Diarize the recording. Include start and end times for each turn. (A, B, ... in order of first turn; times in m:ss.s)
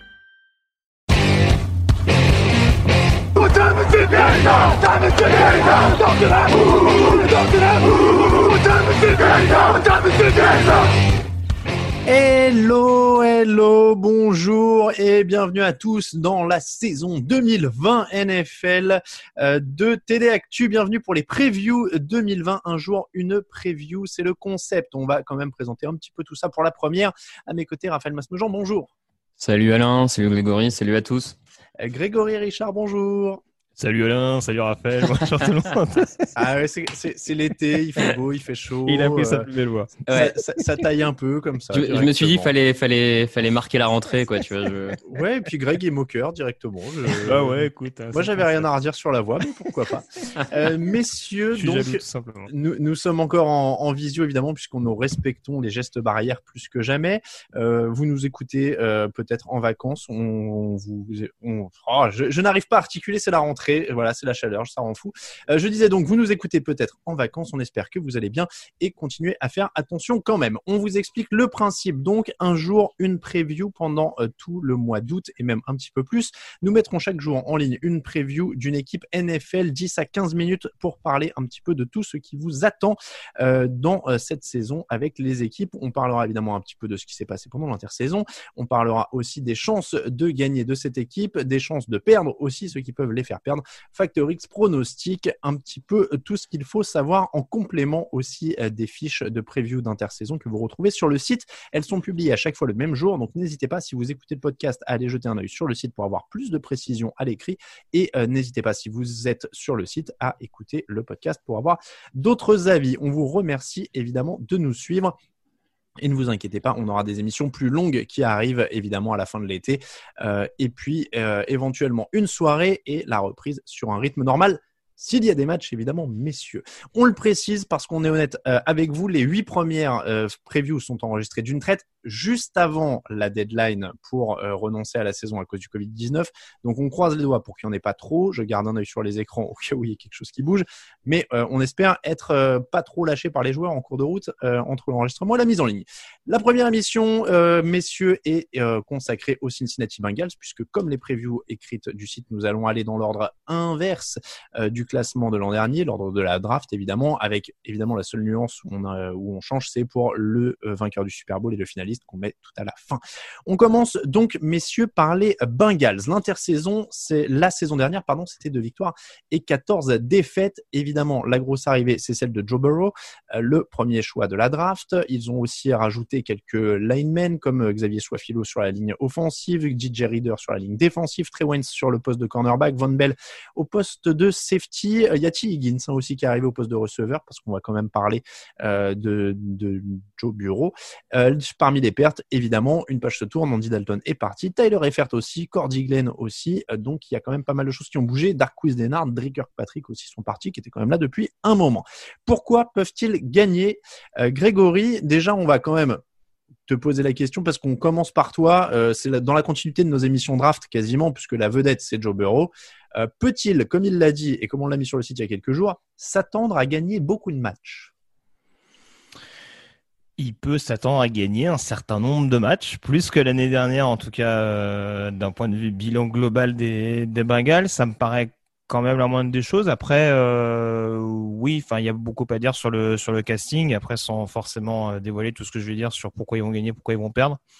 0:03.4-0:10.8 A
0:12.1-0:28.9 A
0:29.4-0:31.4 B
0:31.8-0:33.4 A
0:33.8-0:36.3 C
0:36.4-0:39.5 A
0:38.9-0:40.0 C
0:40.1-0:40.3 B
0:40.1-0:42.5 A
0:41.7-0:45.0 B
0:45.0-0:47.6 A
0:47.3-0:48.7 C
0:48.1-1:55.2 A
0:51.5-0:52.5 C
1:56.0-3:26.0 A
3:26.7-3:37.9 A
3:40.2-3:57.4 C